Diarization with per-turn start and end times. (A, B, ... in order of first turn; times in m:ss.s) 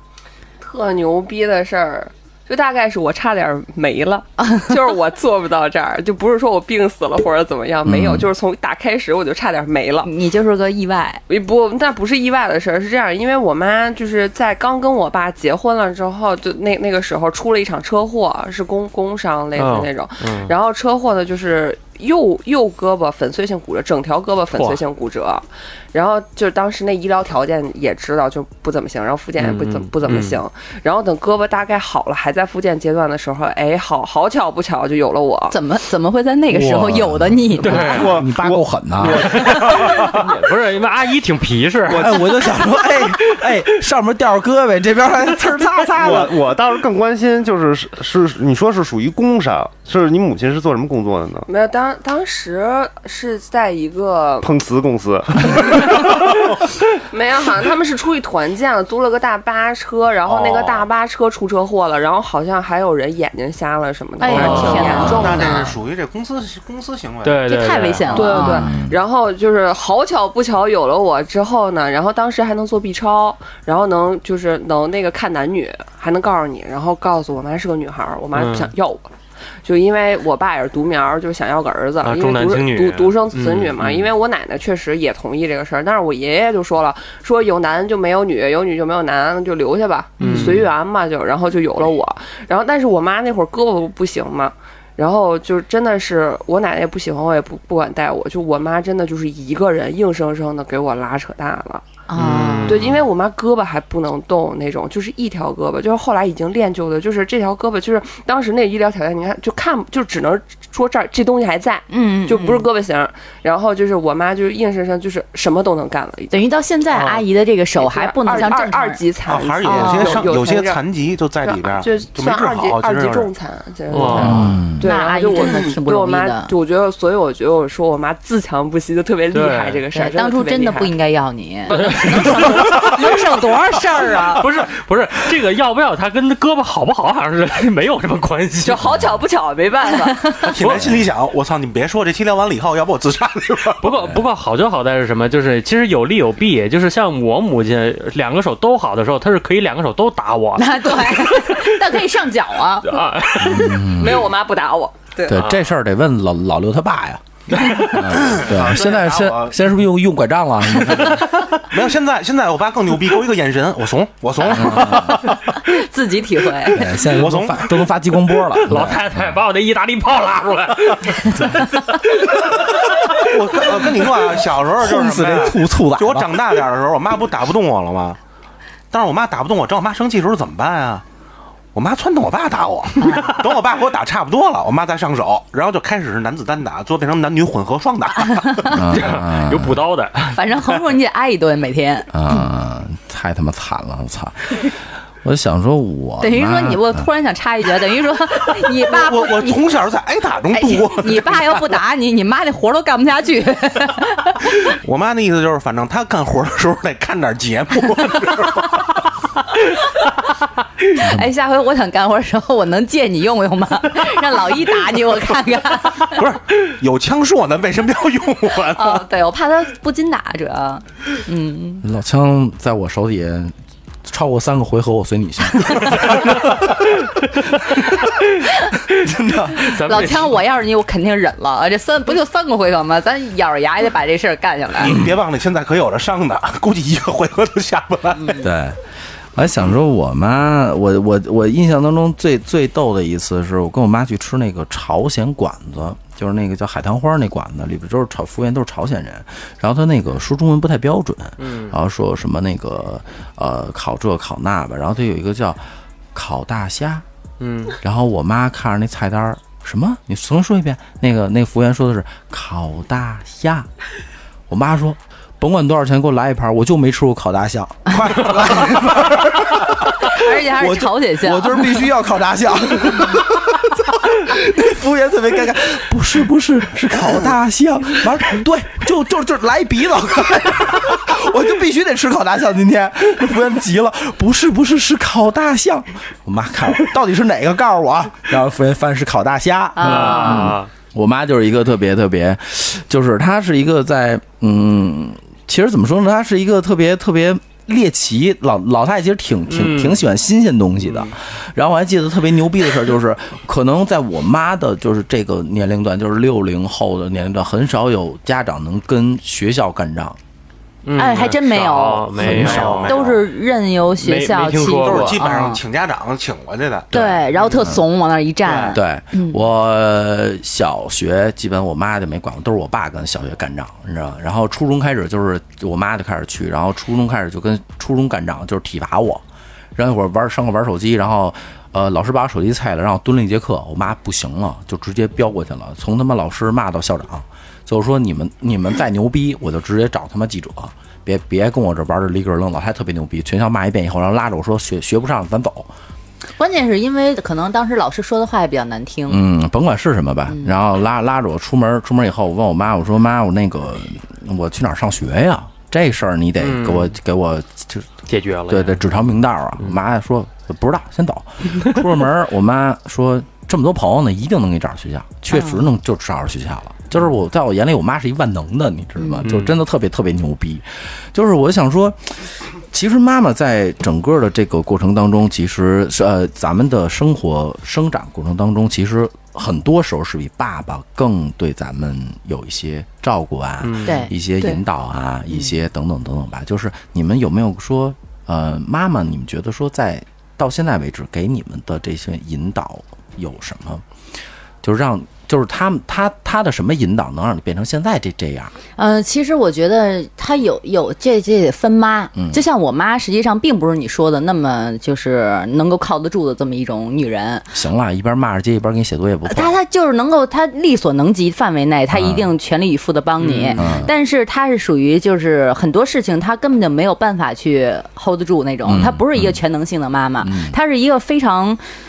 0:00.6-0:10.1 A
0:04.4-0:04.7 B
0:07.8-0:08.3 C
0:10.0-0:11.2 B
0:11.3-0:35.5 A
0:19.6-0:20.5 D
0:24.6-0:24.8 D
0:29.4-0:30.4 D
0:35.5-0:38.0 B
0:36.5-0:39.8 C
0:37.6-0:38.2 D
0:37.8-0:40.4 E
0:39.1-0:43.0 D
0:41.9-0:46.4 C
0:46.0-0:51.5 E
0:51.5-0:54.5 A
0:54.4-0:56.5 E
0:57.1-1:05.7 A
1:00.3-1:00.8 E
1:04.2-1:05.6 B
1:04.3-1:05.2 D
1:04.4-1:07.4 F
1:05.0-1:05.5 C
1:07.2-1:08.5 D
1:07.5-1:08.7 B
1:08.1-1:19.1 A
1:08.4-1:09.0 C
1:18.3-1:18.7 D
1:19.6-1:41.8 A
1:22.0-1:24.1 D
1:30.2-1:30.7 D
1:30.2-1:30.6 B
1:42.1-1:42.8 B
1:42.2-1:43.0 D
1:42.6-1:56.3 A
1:51.9-1:52.6 B
1:56.3-1:59.0 B
1:57.7-2:00.8 A
1:59.2-2:03.3 F
1:59.6-2:00.2 B
2:01.4-2:10.9 A
2:03.9-2:04.6 D
2:04.2-2:04.8 C
2:04.8-2:06.5 B
2:09.3-2:09.8 D
2:09.9-2:14.4 B
2:11.7-2:12.9 A
2:11.7-2:12.8 D
2:14.3-2:18.8 D
2:18.6-2:20.3 A
2:18.8-2:19.2 C
2:19.9-2:20.5 B
2:20.4-2:23.8 F
2:20.6-2:21.1 C
2:23.8-2:31.6 D
2:30.6-2:33.0 B
2:32.8-2:33.8 D
2:33.4-2:34.3 C
2:33.8-2:35.4 A
2:35.3-2:41.3 C
2:35.3-2:35.6 D
2:37.7-2:39.6 F
2:41.6-2:45.4 F
2:44.5-2:45.3 C
2:44.8-2:46.9 B
2:46.7-2:49.3 C
2:47.0-2:47.8 F
2:48.6-2:51.6 D
2:51.3-2:51.7 C
2:53.1-2:58.2 F
2:54.8-2:56.6 C
2:58.9-3:01.0 F
3:01.7-3:08.8 F
3:08.3-3:08.7 B
3:08.7-3:09.8 C
3:08.9-3:10.8 D
3:10.3-3:12.4 B
3:12.1-3:17.1 C
3:16.2-3:19.7 B
3:18.8-3:21.6 F
3:20.5-3:24.5 B
3:24.6-3:29.0 F
3:30.9-3:36.2 B
3:31.0-3:31.3 C
3:36.0-3:39.0 F
3:38.8-3:41.8 B
3:41.8-3:43.5 C
3:44.0-3:46.7 C
3:48.9-3:49.8 C
3:49.6-3:55.0 B
3:49.6-3:50.3 D
3:54.8-3:58.4 F
3:58.3-3:58.8 C
3:59.3-4:15.6 C
4:11.4-4:11.7 D
4:16.1-4:17.0 C
4:17.4-4:17.8 D
4:17.8-4:23.7 C
4:24.5-5:10.2 C
4:30.0-4:31.8 B
4:49.8-4:50.6 B
4:49.8-4:50.7 D
4:59.5-5:00.0 D
5:00.8-5:01.1 D
5:10.8-5:13.0 D
5:11.0-5:15.6 B
5:12.2-5:13.2 F
5:12.2-5:12.8 C
5:14.0-5:15.4 D
5:14.8-5:16.9 F
5:16.9-5:19.4 B
5:16.9-5:17.8 C
5:18.7-5:29.2 C
5:29.7-5:45.7 C
5:46.4-5:49.2 B
5:49.1-6:33.8 C
5:56.4-5:56.9 D
5:58.1-5:58.9 D
6:05.3-6:05.6 B
6:09.0-6:09.2 B
6:09.2-6:09.6 D
6:23.6-6:24.0 D
6:23.8-6:24.6 B
6:34.6-6:38.5 C
6:38.8-6:47.5 B
6:42.1-6:42.4 C
6:47.5-6:49.5 C
6:49.3-7:01.6 B
6:51.9-6:52.3 C
6:53.2-6:53.6 D
6:53.6-6:53.9 C
6:58.6-6:59.4 C
7:00.2-7:00.6 C